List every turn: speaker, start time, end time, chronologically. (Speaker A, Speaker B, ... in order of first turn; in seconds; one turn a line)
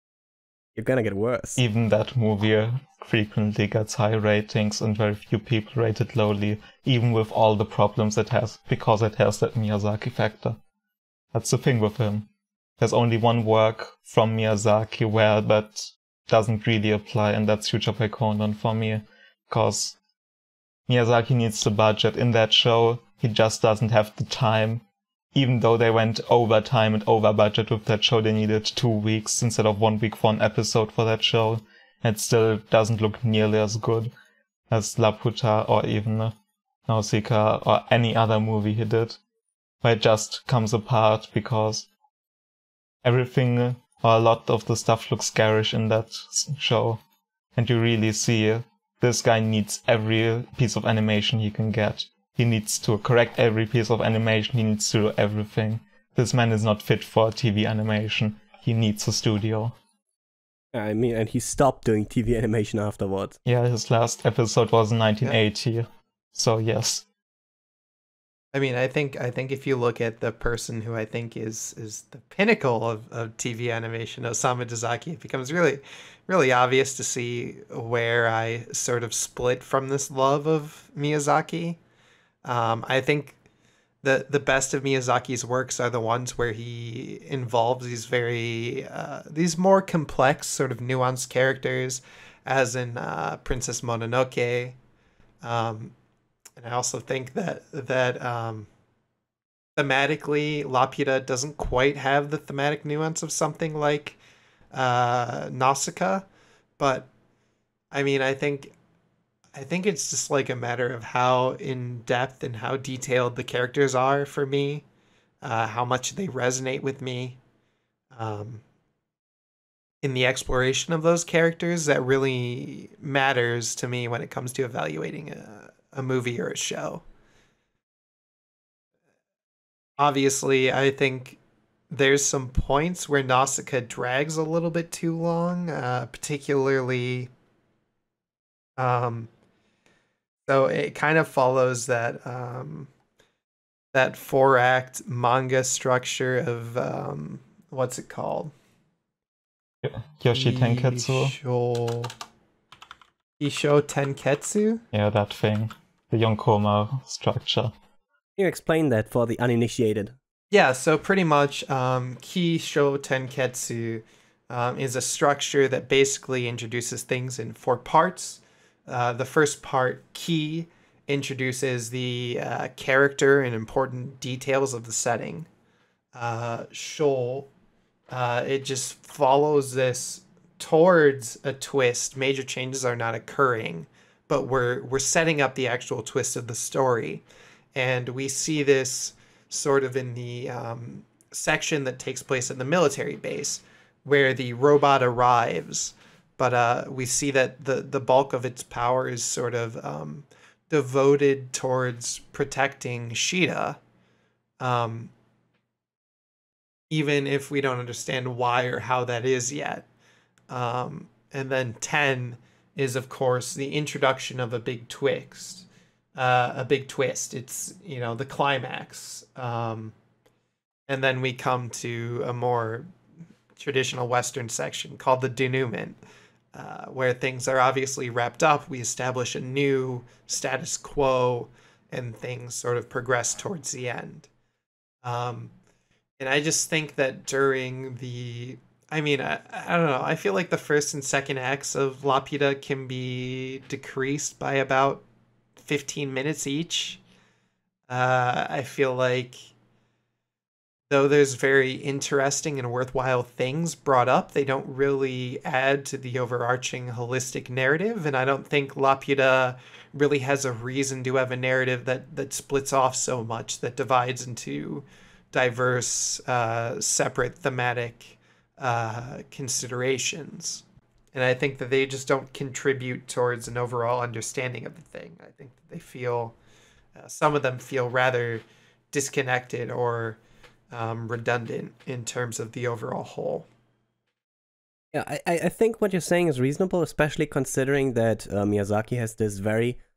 Speaker A: 0.8-1.6
Speaker B: 1.6-10.6
Speaker B: 11.3-12.3
Speaker B: 12.8-20.0
Speaker B: 20.9-24.8
Speaker B: 25.3-34.1
Speaker B: 34.7-36.4
Speaker B: 36.9-39.2
Speaker B: 39.8-41.9
Speaker B: 43.0-47.0
Speaker B: 47.6-59.8
Speaker A: 60.7-63.4
Speaker B: 63.5-67.0
Speaker C: 68.5-81.8
Speaker C: 82.4-83.4
Speaker C: 84.0-94.8
Speaker C: 95.4-95.9
Speaker C: 96.6-98.7
Speaker C: 99.8-104.2
Speaker C: 104.7-106.3
Speaker C: 106.8-107.1
Speaker C: 107.9-108.7
Speaker C: 109.5-114.8
Speaker C: 115.4-117.4
Speaker C: 118.1-118.6
Speaker C: 120.0-127.0
Speaker C: 130.0-131.4
Speaker C: 131.9-137.3
Speaker C: 138.8-139.3
Speaker C: 140.5-142.9
Speaker C: 143.9-148.5
Speaker B: 149.8-151.4
Speaker C: 150.3-152.1
Speaker C: 153.4-154.8
Speaker B: 154.9-157.7
Speaker A: 158.4-160.2
Speaker C: 160.5-175.5
Speaker C: 176.1-177.5
Speaker C: 178.1-187.2
Speaker C: 187.8-203.8
Speaker C: 204.6-205.1
Speaker C: 206.9-209.9
Speaker C: 210.5-219.9
Speaker C: 220.9-222.9
Speaker C: 223.6-226.0
Speaker C: 226.5-234.3
Speaker C: 235.0-235.5
Speaker C: 236.2-245.0
Speaker C: 245.6-247.0
Speaker C: 247.9-249.4
Speaker C: 250.9-276.4
Speaker C: 277.0-280.2
Speaker C: 280.7-283.5
Speaker A: 284.9-289.8